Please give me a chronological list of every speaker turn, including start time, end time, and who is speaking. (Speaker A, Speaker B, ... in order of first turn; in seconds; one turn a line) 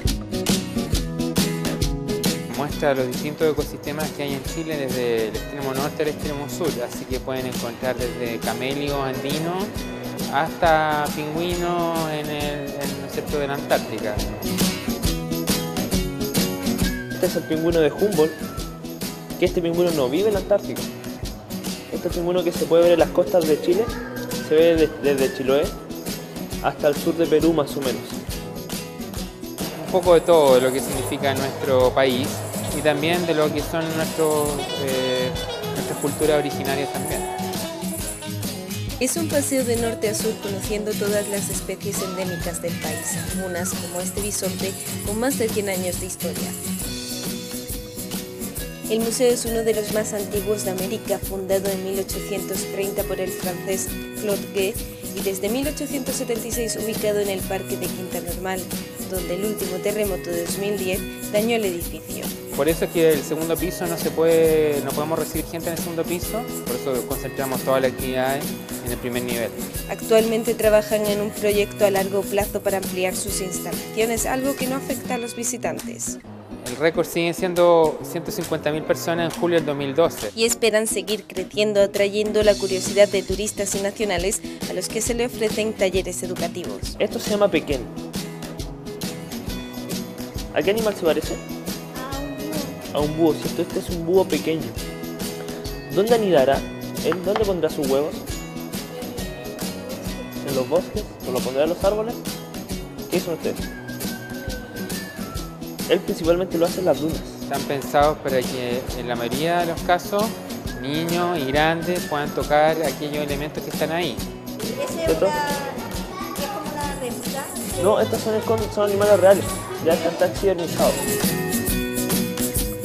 Speaker A: 2.5-9.7
Speaker A: 10.3-14.2
Speaker B: 17.1-18.4
Speaker B: 19.4-20.9
Speaker B: 21.9-25.8
Speaker B: 26.6-28.2
Speaker A: 29.8-37.3
Speaker C: 39.0-46.6
Speaker C: 48.9-62.3
Speaker A: 62.5-69.6
Speaker C: 69.9-76.2
Speaker A: 76.6-80.3
Speaker C: 80.3-87.0
Speaker B: 87.0-87.9
Speaker B: 90.5-91.4
Speaker D: 92.0-92.8
Speaker B: 92.9-94.8
Speaker B: 95.9-98.2
Speaker D: 98.9-100.2
Speaker B: 100.4-102.2
Speaker B: 103.1-103.7
Speaker B: 105.9-107.4
Speaker A: 107.5-114.3
Speaker D: 114.8-115.8
Speaker B: 115.0-115.4
Speaker D: 116.3-117.8
Speaker B: 117.8-121.0